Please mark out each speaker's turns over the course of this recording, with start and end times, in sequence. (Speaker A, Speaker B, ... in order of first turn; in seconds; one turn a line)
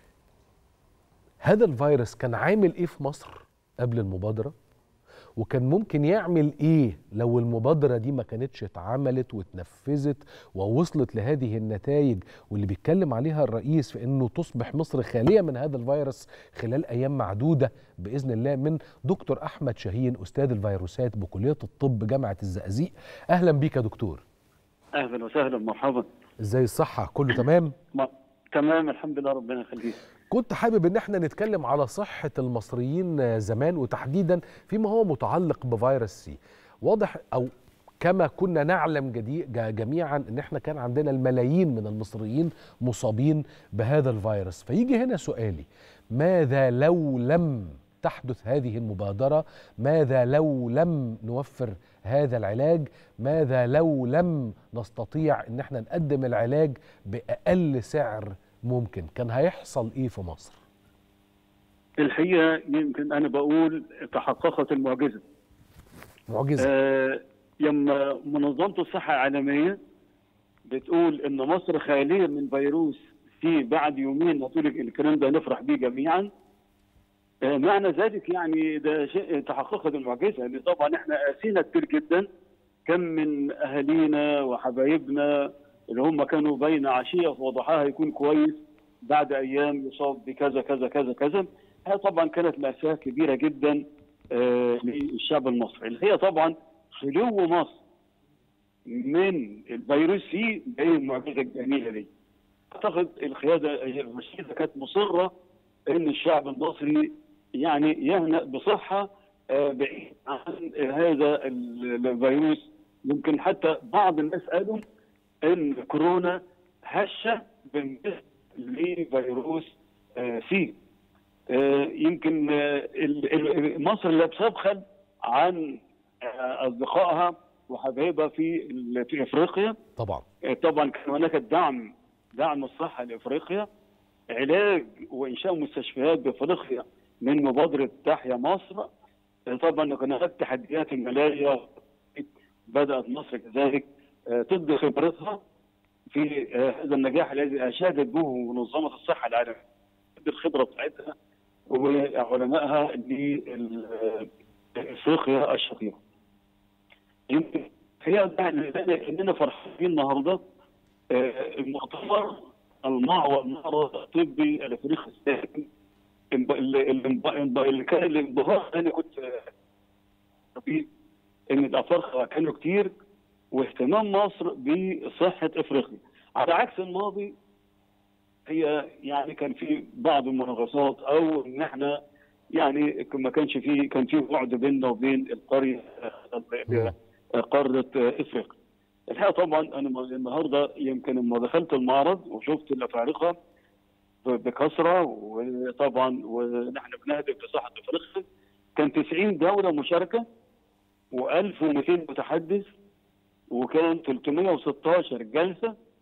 Speaker A: 1.4-4.5
Speaker A: 5.4-24.2
Speaker B: 25.0-26.1
Speaker A: 26.4-27.7
Speaker B: 27.9-30.0
Speaker A: 30.3-37.5
Speaker A: 38.0-60.6
Speaker B: 62.0-65.2
Speaker A: 66.3-66.7
Speaker B: 66.6-69.8
Speaker B: 70.7-76.3
Speaker B: 77.5-82.3
Speaker B: 82.9-97.8
Speaker B: 98.9-102.1
Speaker B: 102.7-105.3
Speaker B: 105.9-114.8
Speaker B: 115.5-120.7
Speaker B: 121.5-129.8
Speaker A: 130.0-130.2
Speaker B: 130.5-133.7
Speaker B: 134.3-138.9
Speaker B: 139.5-145.4
Speaker B: 146.1-149.6
Speaker B: 150.2-151.1
Speaker B: 151.7-156.0
Speaker B: 157.3-160.4
Speaker B: 161.1-165.7
Speaker B: 166.3-169.5
Speaker B: 170.6-170.9
Speaker B: 171.5-172.9
Speaker B: 173.5-177.3
Speaker B: 178.5-182.0
Speaker B: 182.6-188.5
Speaker B: 189.1-193.3
Speaker B: 194.2-198.2
Speaker B: 198.8-200.2
Speaker B: 201.1-202.7
Speaker B: 203.5-205.7